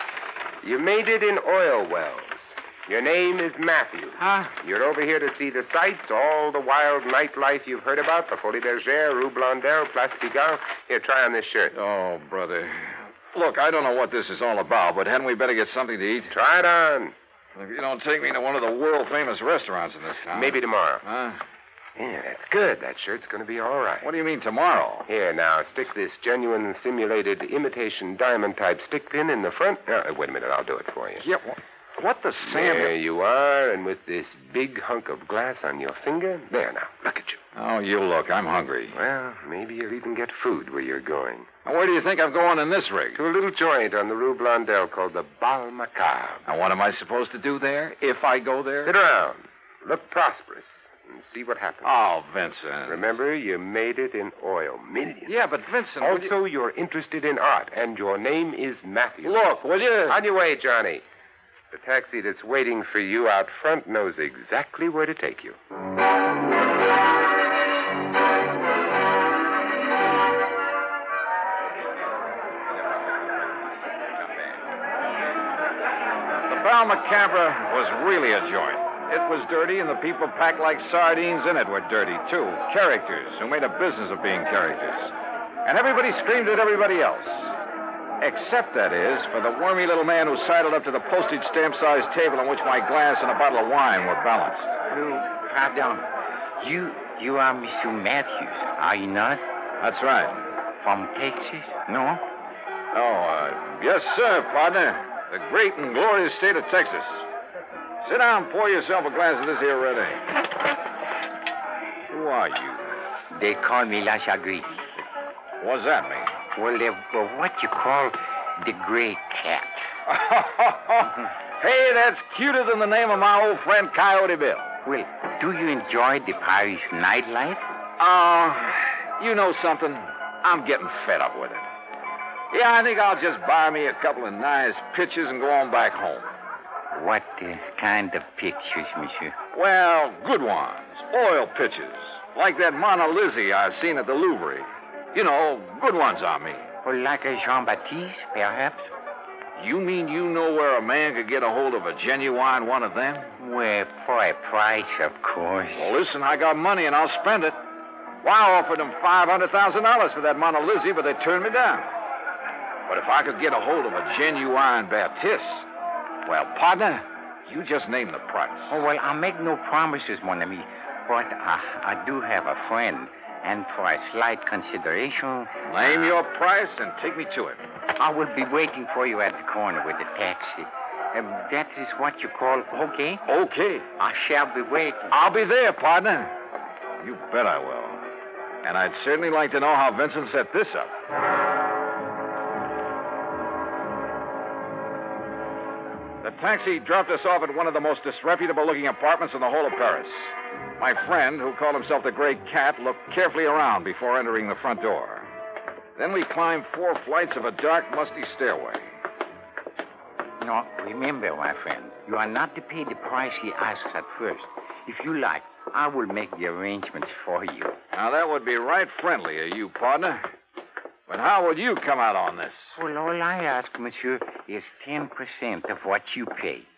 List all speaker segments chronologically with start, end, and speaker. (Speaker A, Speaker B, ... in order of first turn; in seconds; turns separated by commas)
Speaker A: 0.6-11.7, Speaker A: 16.3-17.1, Speaker B: 18.6-20.2, Speaker A: 20.3-21.0, Speaker A: 21.9-24.1, Speaker B: 24.1-24.9, Speaker A: 25.1-31.2, Speaker B: 32.0-32.8, Speaker A: 32.4-37.4, Speaker B: 37.6-38.9, Speaker A: 38.9-41.5, Speaker B: 41.7-43.1, Speaker A: 43.1-46.5, Speaker B: 46.5-48.9, Speaker A: 48.8-52.0, Speaker B: 51.9-52.9, Speaker A: 52.9-55.4, Speaker B: 55.3-56.2, Speaker A: 56.0-61.0, Speaker B: 59.3-60.1, Speaker A: 61.7-65.6, Speaker B: 76.5-85.1, Speaker B: 85.7-87.5, Speaker B: 88.2-94.7, Speaker C: 94.9-96.0, Speaker C: 96.6-99.4, Speaker B: 99.8-100.4, Speaker C: 100.8-102.2, Speaker B: 102.9-107.2, Speaker B: 108.0-110.1, Speaker B: 112.1-112.8, Speaker C: 113.3-114.8, Speaker B: 115.6-116.3, Speaker C: 116.5-119.8, Speaker B: 120.1-121.0, Speaker B: 121.6-124.7, Speaker C: 124.8-127.6, Speaker B: 128.0-131.6, Speaker B: 132.5-136.3, Speaker C: 136.9-139.4, Speaker B: 139.5-146.6, Speaker C: 146.8-148.9, Speaker B: 149.6-153.3, Speaker C: 153.4-155.9, Speaker B: 155.8-157.6, Speaker B: 158.2-161.9, Speaker B: 162.9-165.6, Speaker B: 166.2-168.7, Speaker C: 168.7-176.0, Speaker B: 175.7-177.6, Speaker C: 178.0-183.2, Speaker B: 183.3-183.8, Speaker C: 184.0-185.2, Speaker B: 185.1-186.3, Speaker B: 187.0-188.0, Speaker B: 188.6-190.9, Speaker B: 196.2-205.2, Speaker B: 206.0-208.8, Speaker C: 210.4-217.8, Speaker B: 217.9-220.2, Speaker B: 221.1-222.7, Speaker C: 222.8-226.7